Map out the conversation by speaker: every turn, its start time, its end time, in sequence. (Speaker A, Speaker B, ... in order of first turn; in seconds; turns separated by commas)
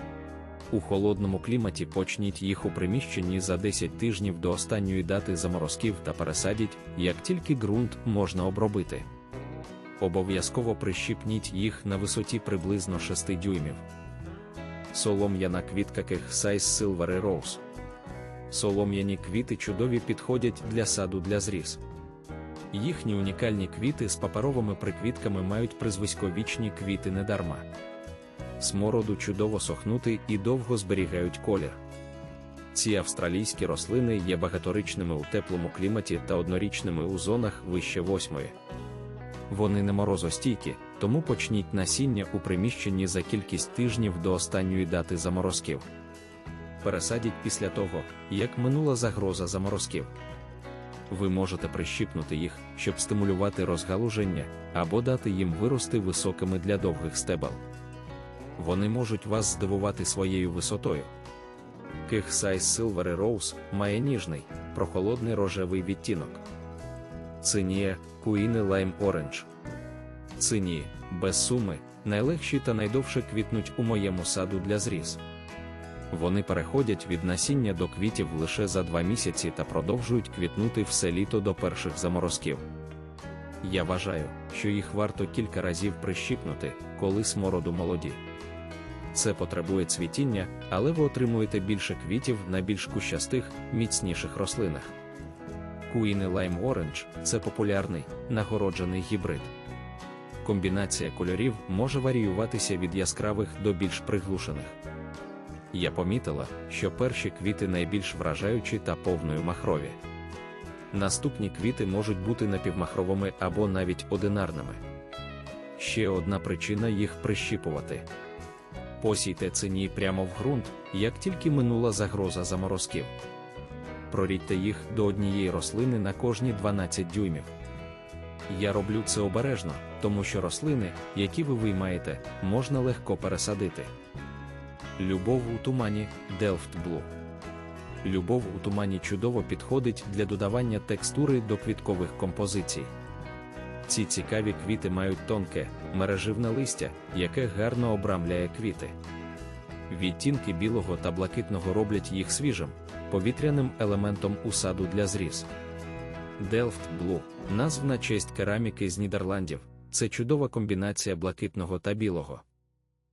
Speaker A: 0.7-9.1, Speaker A: 10.0-13.8, Speaker A: 14.9-17.6, Speaker A: 18.5-21.8, Speaker A: 22.7-27.7, Speaker A: 28.6-31.8, Speaker A: 32.7-38.5, Speaker A: 39.5-45.9, Speaker A: 46.8-50.1, Speaker A: 51.1-57.6, Speaker A: 58.6-61.1, Speaker A: 62.1-66.4, Speaker A: 67.4-69.5, Speaker A: 70.4-75.2, Speaker A: 76.1-82.6, Speaker A: 83.6-88.2, Speaker A: 89.1-94.9, Speaker A: 95.9-99.5, Speaker A: 100.4-104.8, Speaker A: 105.7-110.0, Speaker A: 110.9-114.8, Speaker A: 115.8-118.1, Speaker A: 119.0-123.1, Speaker A: 124.1-127.5, Speaker A: 128.5-133.9, Speaker A: 135.0-137.1, Speaker A: 138.0-142.9, Speaker A: 143.9-149.0, Speaker A: 149.9-155.5, Speaker A: 156.4-162.4